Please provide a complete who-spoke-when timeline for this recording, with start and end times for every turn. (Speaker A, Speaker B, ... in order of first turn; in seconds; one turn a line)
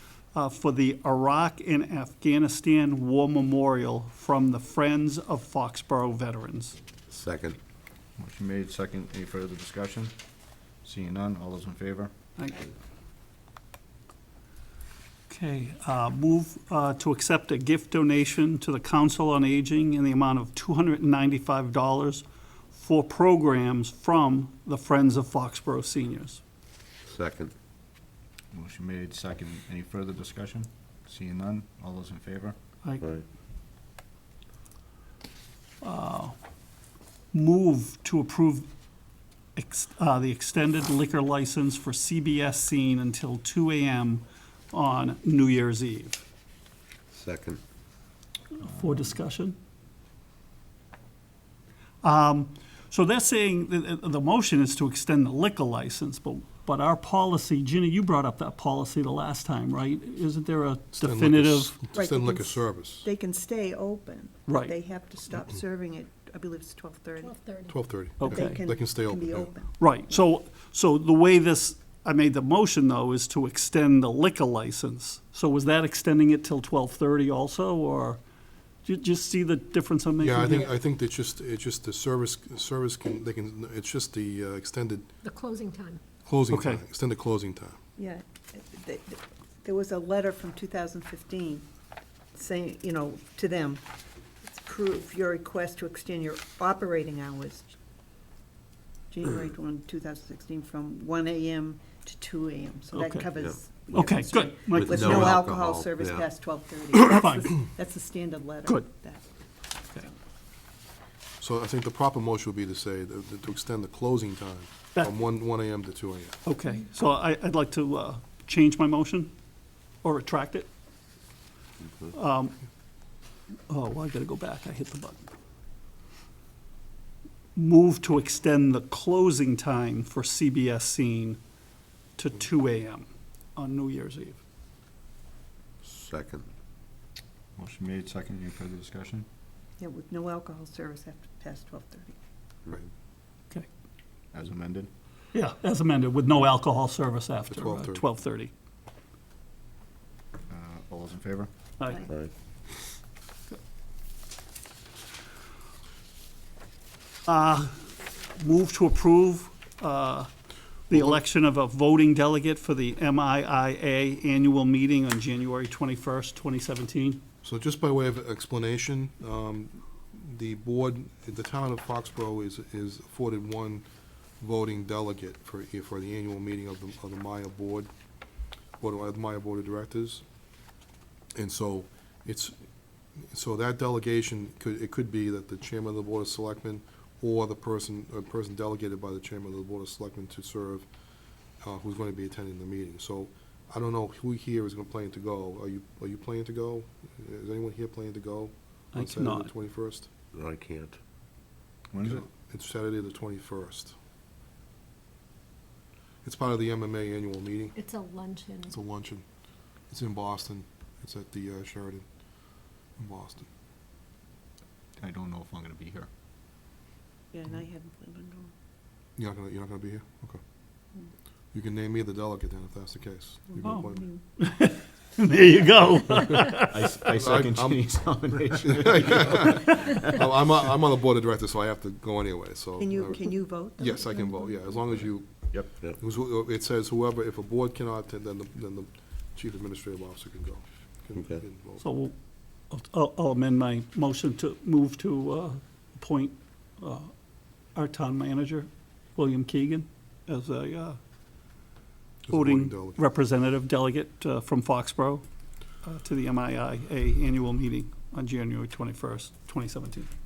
Speaker A: 0.3-6.8
Speaker B: 7.1-7.6
Speaker C: 8.2-10.1
Speaker C: 10.8-12.1
Speaker A: 12.4-12.7
Speaker A: 15.3-26.4
Speaker B: 27.1-27.5
Speaker C: 28.5-32.5
Speaker A: 35.8-36.4
Speaker A: 37.3-38.7
Speaker A: 39.5-46.2
Speaker B: 47.1-47.6
Speaker A: 48.6-49.5
Speaker A: 52.0-61.8
Speaker D: 61.0-63.1
Speaker E: 61.9-67.4
Speaker A: 64.5-64.7
Speaker F: 67.2-67.8
Speaker D: 67.7-69.5
Speaker A: 68.2-68.6
Speaker E: 68.2-70.1
Speaker A: 69.8-78.2
Speaker A: 78.8-80.7
Speaker D: 80.2-85.1
Speaker F: 85.2-86.0
Speaker D: 86.2-87.8
Speaker A: 86.5-86.8
Speaker E: 88.0-91.7
Speaker E: 92.3-93.8
Speaker E: 94.4-97.7
Speaker E: 99.1-109.2
Speaker A: 102.9-105.3
Speaker B: 103.4-106.3
Speaker A: 106.9-107.6
Speaker D: 111.4-116.4
Speaker A: 116.4-119.3
Speaker A: 120.0-120.7
Speaker A: 122.1-122.6
Speaker A: 123.7-125.3
Speaker A: 127.5-131.4
Speaker A: 132.2-134.4
Speaker B: 135.8-136.5
Speaker C: 137.6-139.3
Speaker E: 139.8-142.2
Speaker C: 144.3-144.9
Speaker A: 145.3-148.5
Speaker D: 147.5-148.0
Speaker C: 150.5-151.5
Speaker A: 157.3-157.8
Speaker A: 158.4-160.3
Speaker A: 160.9-167.2
Speaker D: 167.4-173.8
Speaker D: 174.4-177.9
Speaker D: 178.8-180.2
Speaker D: 181.4-182.6
Speaker D: 183.3-190.9
Speaker D: 191.6-200.1
Speaker A: 198.9-199.5
Speaker B: 200.3-201.0
Speaker C: 201.9-202.2
Speaker D: 202.0-203.9
Speaker D: 206.2-207.8
Speaker F: 207.8-208.8
Speaker D: 208.7-209.2
Speaker D: 209.9-212.1
Speaker D: 213.0-213.5
Speaker C: 215.0-216.1
Speaker E: 217.3-218.5
Speaker D: 219.2-220.4
Speaker D: 221.5-224.1
Speaker A: 223.6-223.9
Speaker E: 223.8-224.2
Speaker A: 224.4-226.8
Speaker C: 226.7-229.9
Speaker D: 227.1-227.9
Speaker D: 228.6-241.8
Speaker A: 229.6-230.0
Speaker E: 232.8-234.9
Speaker B: 241.2-241.4
Speaker A: 241.8-242.1
Speaker A: 242.7-247.1
Speaker A: 247.7-251.0
Speaker D: 252.2-253.1
Speaker A: 252.3-255.2
Speaker A: 255.8-260.1